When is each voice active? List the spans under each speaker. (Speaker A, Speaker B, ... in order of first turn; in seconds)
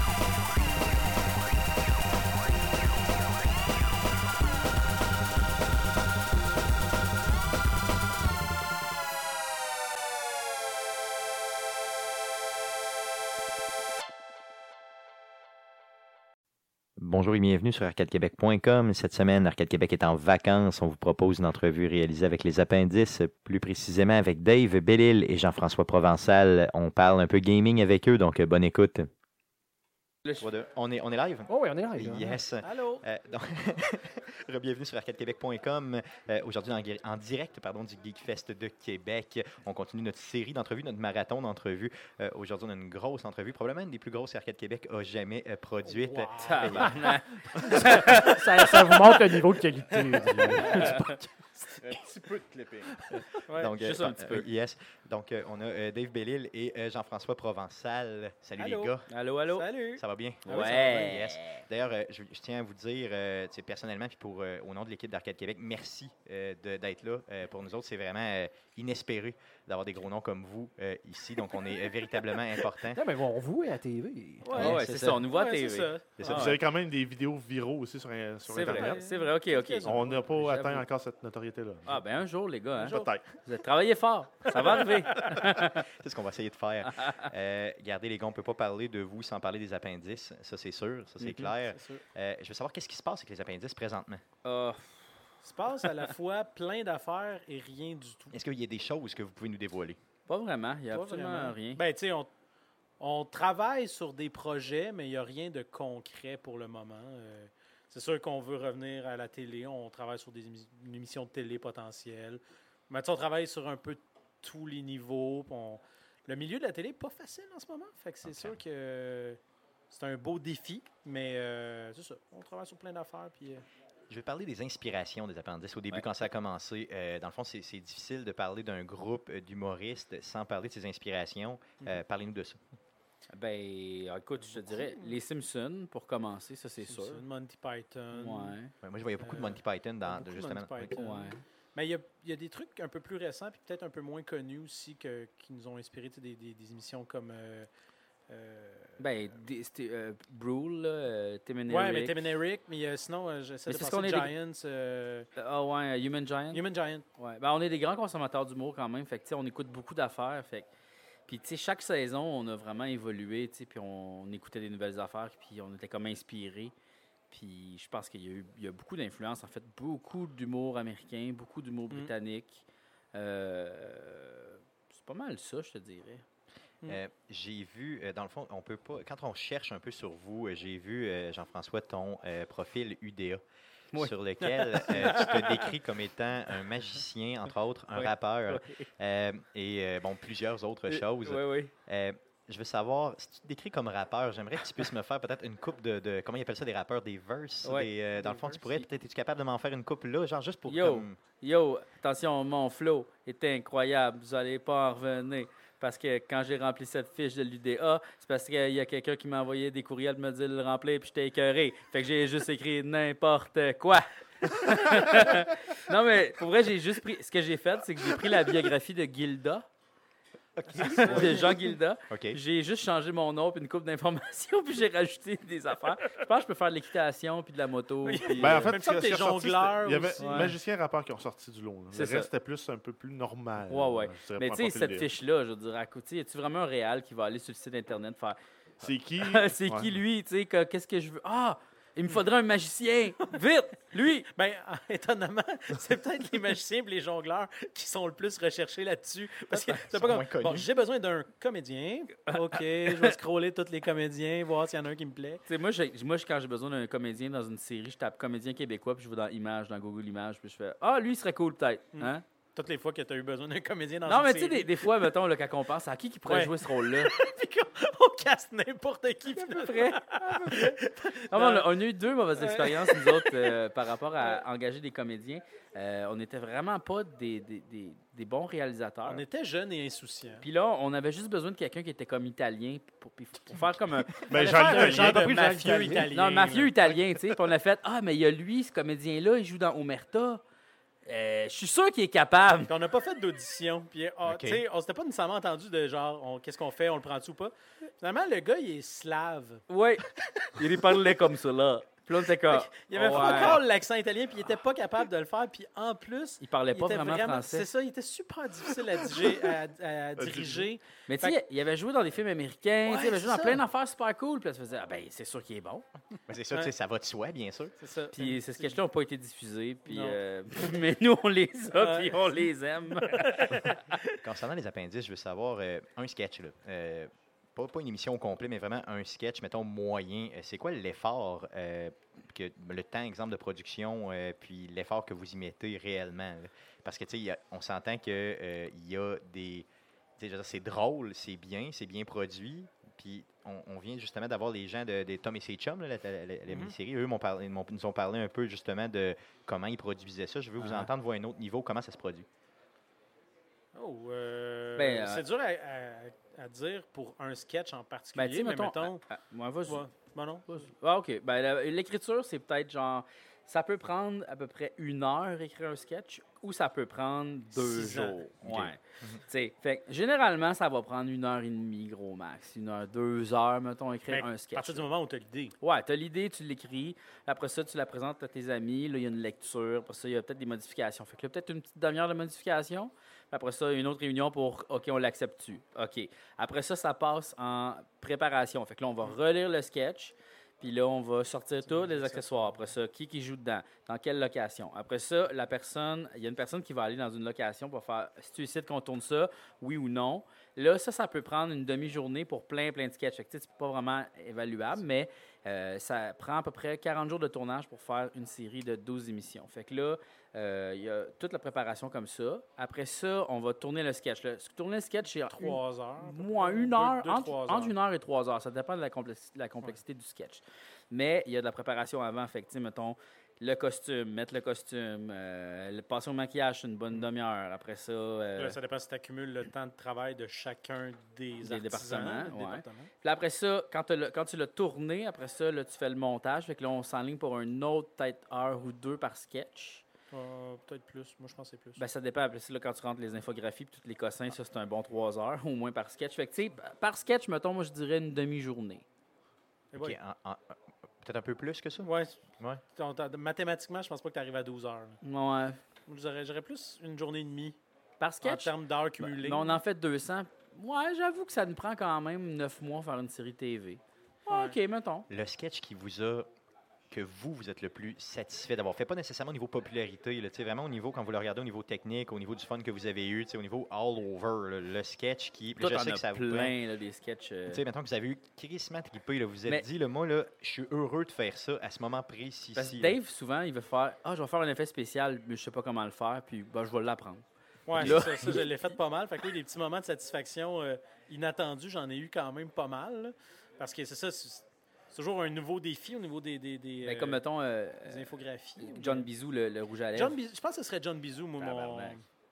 Speaker A: 17.0-29.1, 30.4-47.0, 53.6-59.1, 60.0-73.0, 74.5-75.2, 76.2-76.5, 85.7-94.2, 98.3-100.0, 118.2-118.6, 124.1-132.6, 138.8-140.9, 176.9-183.4, 184.0-201.2, 222.1-222.4, 249.7-250.7, 294.2-294.6, 316.3-317.7, 324.2-339.7, 340.2-352.3, 368.4-369.2, 449.8-452.6, 465.1-466.3, 466.9-476.5, 477.5-483.0, 487.8-488.1
Speaker B: 31.5-32.4, 47.6-51.7, 72.9-74.7, 220.6-221.6, 284.4-286.1
Speaker C: 32.6-33.0, 45.9-46.9, 53.4-53.8, 58.6-58.9, 59.5-61.1, 74.4-76.3, 78.5-80.2, 82.8-83.1, 84.5-84.9, 91.7-92.0, 95.4-98.4, 100.9-102.3, 103.0-119.4, 119.9-123.6, 134.5-135.2, 136.8-138.5, 139.2-147.7, 148.3-149.0, 151.7-155.3, 156.5-157.0, 184.4-185.7, 220.9-221.5, 228.0-230.5, 244.3-255.4, 261.9-265.1, 266.3-271.7, 272.4-273.6, 279.0-280.4, 284.3-286.7, 292.7-299.6, 302.4-311.4, 312.9-313.6, 317.8-318.8, 319.9-320.2, 321.8-322.4, 323.0-324.1, 346.5-346.7, 353.7-359.0, 359.7-360.5, 367.5-368.2, 374.1-375.5, 391.6-392.7, 415.3-417.7, 428.4-432.9, 440.1-441.8, 449.7-450.0, 451.8-452.2, 452.8-455.0, 455.9-457.6, 458.2-459.6, 464.3-464.6, 487.7-497.2, 497.8-499.1, 499.9-502.0
Speaker D: 46.4-49.1, 50.5-51.2, 51.9-52.9, 53.8-54.5, 59.1-59.7, 60.5-61.6, 74.5-76.6, 78.5-80.8, 81.8-85.9, 86.9-87.3, 91.2-91.5, 94.4-95.1, 100.3-101.8, 133.3-137.2, 138.1-138.7, 140.9-141.4, 149.0-152.2, 153.7-154.3, 155.4-156.6, 157.2-160.7, 161.3-166.7, 167.3-176.2, 187.9-188.8, 190.9-191.7, 197.6-198.8, 200.7-219.7, 220.8-228.7, 230.2-230.5, 231.9-232.3, 233.7-238.4, 239.2-244.3, 252.3-253.2, 255.4-262.2, 264.1-267.1, 269.3-279.2, 280.4-284.3, 286.1-290.4, 291.1-292.7, 299.7-303.6, 306.4-307.7, 311.1-315.9, 318.1-323.7, 350.6-350.9, 354.8-355.2, 358.1-359.9, 360.5-374.8, 375.6-428.6, 431.4-439.8, 441.8-448.8, 455.0-455.6, 458.0-465.1, 475.6-477.6, 482.6-487.2, 487.8-488.5, 496.8-498.1, 498.6-500.2, 501.4-502.0
Speaker E: 76.3-79.0, 79.8-82.0, 82.8-83.2, 228.4-235.1, 238.8-239.9, 284.3-285.3, 310.2-310.6